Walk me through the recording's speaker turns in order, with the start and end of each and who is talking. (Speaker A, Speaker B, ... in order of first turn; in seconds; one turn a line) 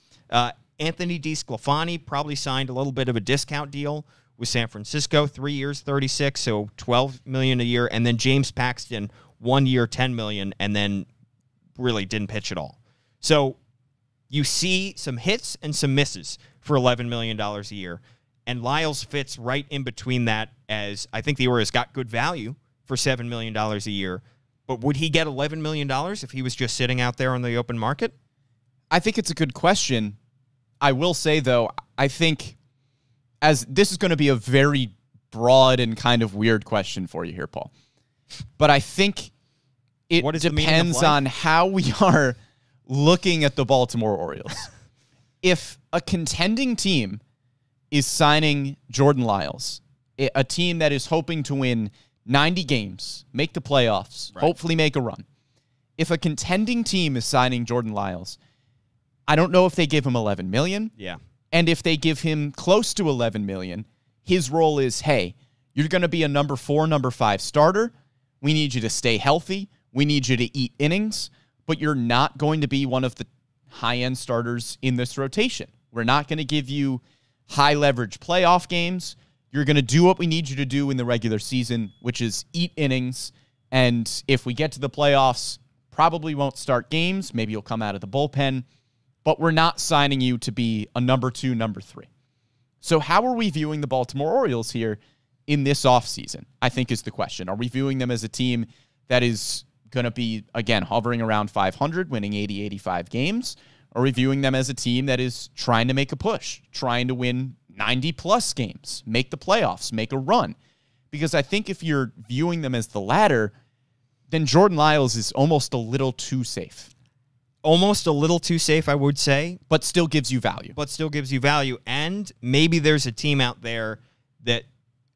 Speaker A: 0.3-11.1
Speaker A: 11.8-13.6
Speaker A: 14.3-28.1
Speaker B: 28.9-30.2
Speaker B: 30.8-32.5
Speaker B: 33.4-37.7
Speaker B: 38.6-39.3
Speaker B: 40.1-44.7
Speaker A: 40.2-41.2
Speaker B: 45.4-47.2
Speaker B: 47.9-55.2
Speaker B: 56.0-58.4
Speaker B: 59.3-60.9
Speaker B: 61.5-88.6
Speaker B: 89.2-92.1
Speaker B: 92.8-110.5
Speaker B: 111.1-113.5
Speaker B: 114.3-116.9
Speaker A: 117.6-119.6
Speaker B: 119.7-120.8
Speaker A: 120.7-124.7